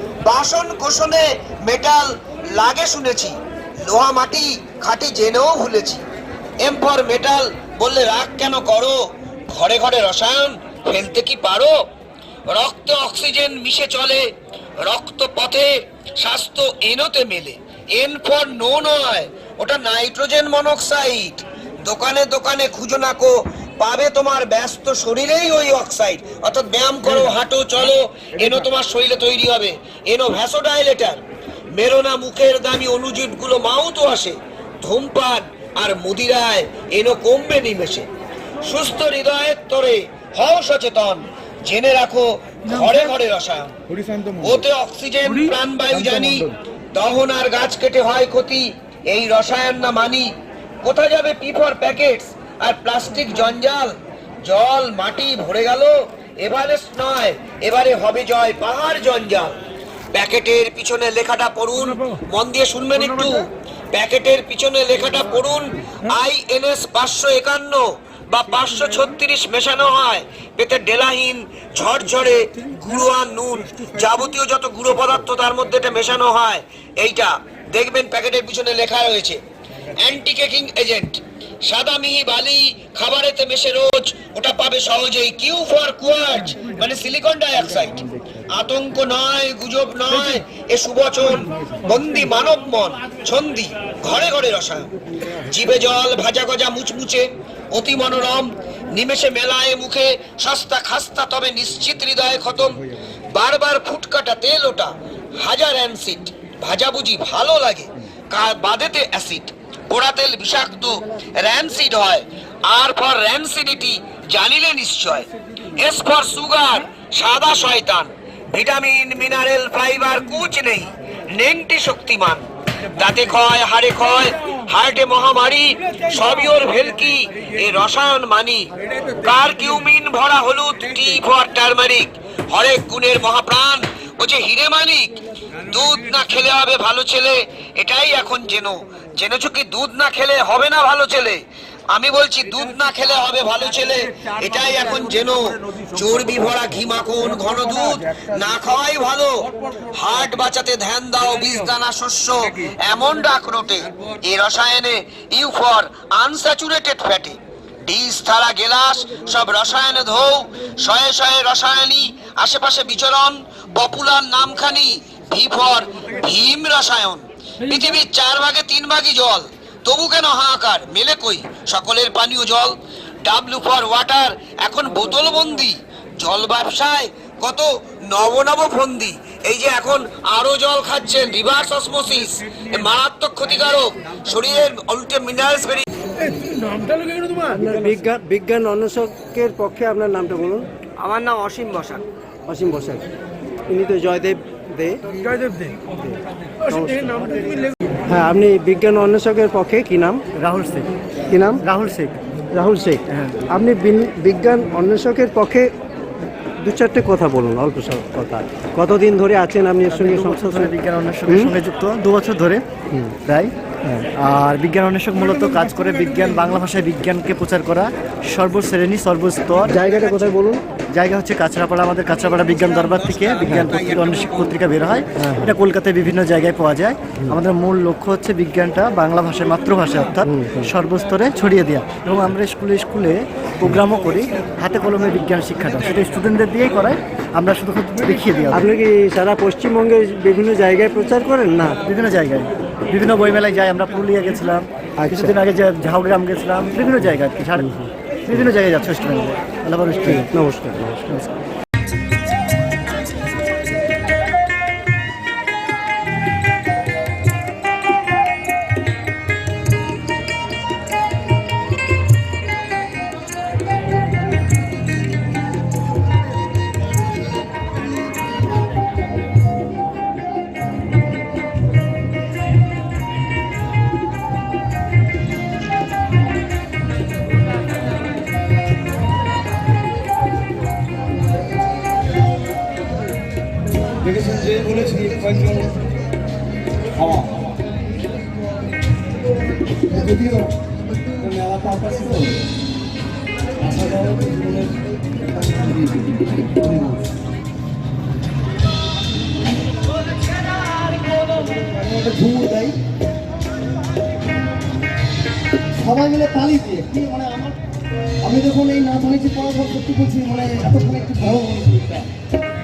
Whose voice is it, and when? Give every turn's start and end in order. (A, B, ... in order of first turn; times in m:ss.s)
0:00.2-0:06.0 A
0:06.6-0:09.0 A
0:09.5-0:11.7 A
0:12.5-0:31.2 A
0:31.7-0:38.1 A
0:38.6-0:43.7 A
0:44.3-0:59.6 A
1:00.1-1:19.4 A
1:20.0-1:42.8 A
1:43.3-3:05.8 A
3:07.4-3:10.6 B
3:11.0-3:12.0 A
3:11.8-3:13.1 B
3:13.7-3:20.2 B
3:20.4-3:20.9 C
3:21.3-3:21.6 B
3:21.6-3:22.1 C
3:22.5-3:25.7 B
3:23.1-3:23.4 C
3:26.6-3:30.7 B
3:29.9-3:32.6 C
3:31.3-3:31.5 B
3:33.1-3:33.5 C
3:34.2-3:39.7 C
3:39.7-3:40.6 B
3:40.9-3:58.6 C
3:45.2-3:45.5 B
3:50.3-3:50.7 B
3:58.5-4:01.8 B
4:01.8-4:07.7 C
4:05.0-4:05.3 B
4:07.6-4:08.5 B
4:08.3-4:10.3 C
4:10.0-4:11.1 B
4:44.0-4:45.8 D
4:47.0-4:47.4 D
4:49.9-4:50.5 D
4:51.2-4:52.4 D
4:53.6-4:54.8 D
4:55.4-4:57.0 D
5:01.6-5:02.7 D
5:05.8-5:07.6 D
5:08.2-5:12.1 D